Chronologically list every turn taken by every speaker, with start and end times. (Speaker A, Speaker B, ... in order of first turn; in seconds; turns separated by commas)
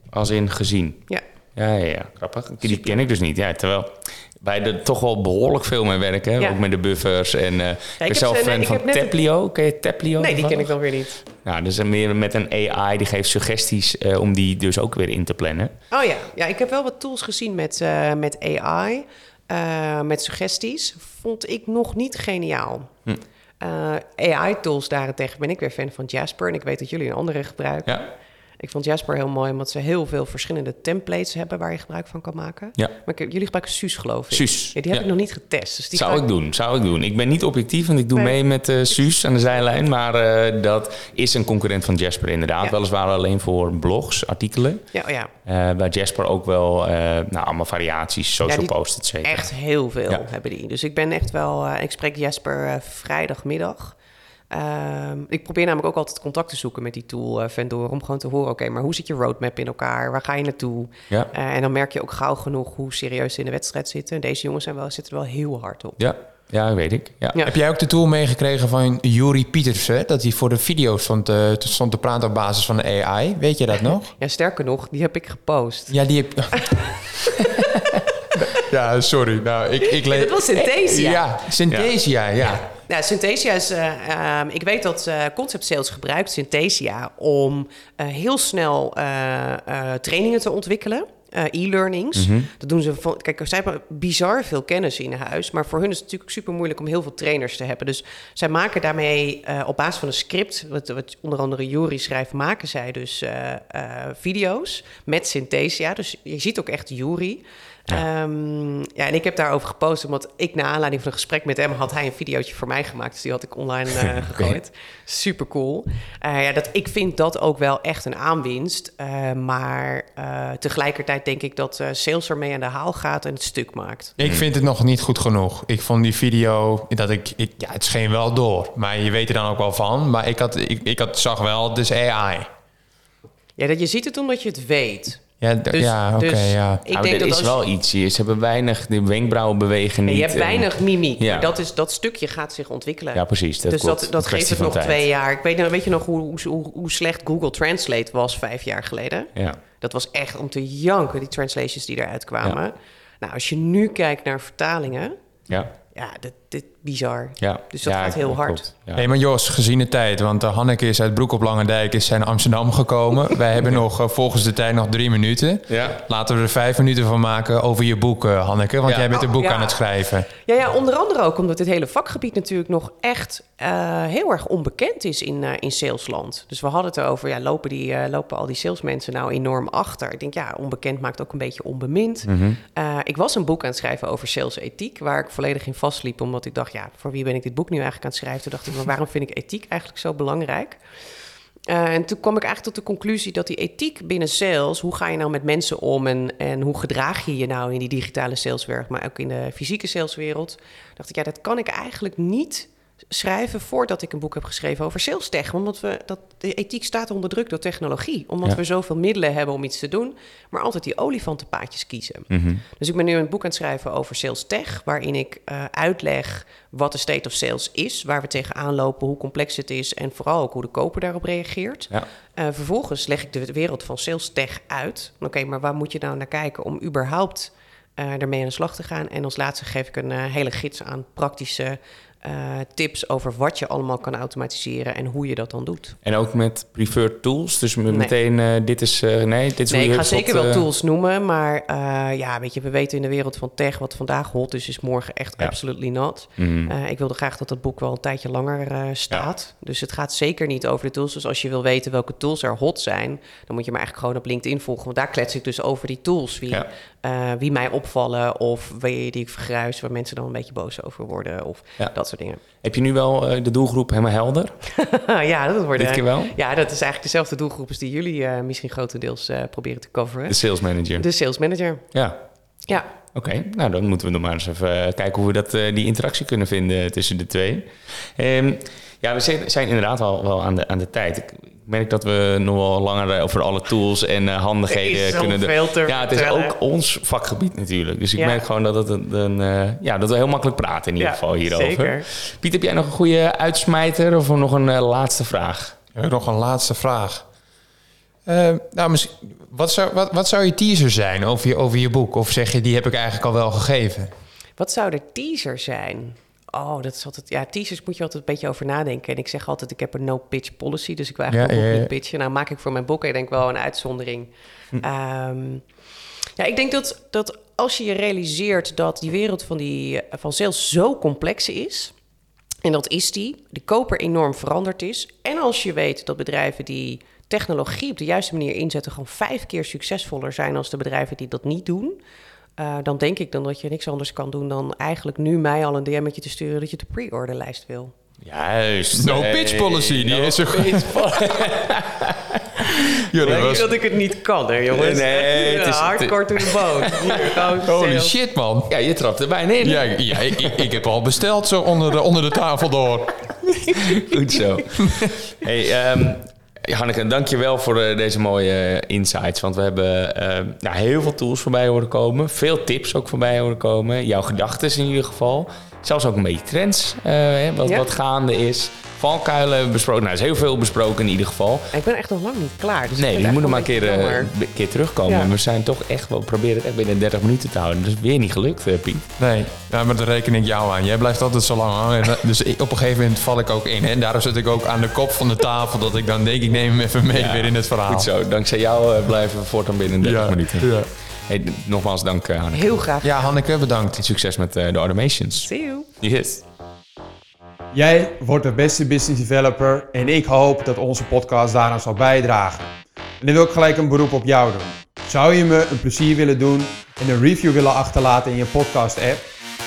Speaker A: 0.1-10.7, Speaker B: 2.7-3.0, Speaker B: 8.0-9.1, Speaker B: 10.2-11.2, Speaker A: 11.3-15.7, Speaker B: 15.9-22.9, Speaker B: 23.6-28.0, Speaker B: 28.6-36.2, Speaker A: 34.3-35.1, Speaker A: 35.9-44.8, Speaker B: 44.9-45.3, Speaker A: 45.5-49.5, Speaker B: 48.5-54.0, Speaker B: 54.5-66.0, Speaker A: 66.0-67.4, Speaker C: 67.4-74.1, Speaker B: 74.2-76.0, Speaker C: 75.9-77.0, Speaker B: 76.5-77.9, Speaker C: 78.5-82.6, Speaker B: 79.9-81.3, Speaker B: 82.7-124.1, Speaker A: 92.2-92.5, Speaker A: 114.2-114.5, Speaker C: 124.2-132.5, Speaker B: 133.6-137.6, Speaker C: 135.4-136.8, Speaker A: 136.9-141.5, Speaker B: 140.1-155.2, Speaker A: 143.1-145.0, Speaker B: 155.9-158.7, Speaker A: 157.4-159.1, Speaker C: 158.9-170.3, Speaker A: 165.7-166.0, Speaker B: 169.1-190.8, Speaker A: 182.2-182.6, Speaker B: 191.7-236.0, Speaker A: 212.3-212.6, Speaker A: 236.0-240.6, Speaker B: 239.7-262.4, Speaker A: 246.4-246.7, Speaker A: 262.6-264.6, Speaker B: 264.7-270.4, Speaker A: 265.8-266.3, Speaker A: 270.3-271.1, Speaker B: 271.0-271.9, Speaker A: 271.9-272.2, Speaker A: 273.1-295.8, Speaker B: 284.7-286.6, Speaker B: 288.2-288.4, Speaker B: 291.0-292.1, Speaker C: 295.9-297.2, Speaker C: 298.2-304.1, Speaker B: 304.6-315.6, Speaker C: 311.3-311.9, Speaker B: 316.4-321.9, Speaker B: 322.6-332.0, Speaker B: 332.6-337.9, Speaker A: 338.2-343.7, Speaker C: 338.9-340.9, Speaker C: 342.7-343.7, Speaker B: 343.2-348.1, Speaker A: 344.7-347.4, Speaker C: 347.6-348.7, Speaker A: 348.7-350.7, Speaker C: 349.6-353.8, Speaker A: 353.8-371.7, Speaker C: 354.8-355.1, Speaker B: 371.7-374.3, Speaker A: 372.9-379.1, Speaker B: 375.1-375.3, Speaker C: 379.2-388.1, Speaker A: 387.1-392.8, Speaker C: 390.0-390.9, Speaker B: 392.5-393.3, Speaker C: 393.0-394.0, Speaker A: 393.9-395.5, Speaker B: 395.4-395.9, Speaker A: 396.0-396.4, Speaker D: 397.7-402.7, Speaker D: 403.2-409.2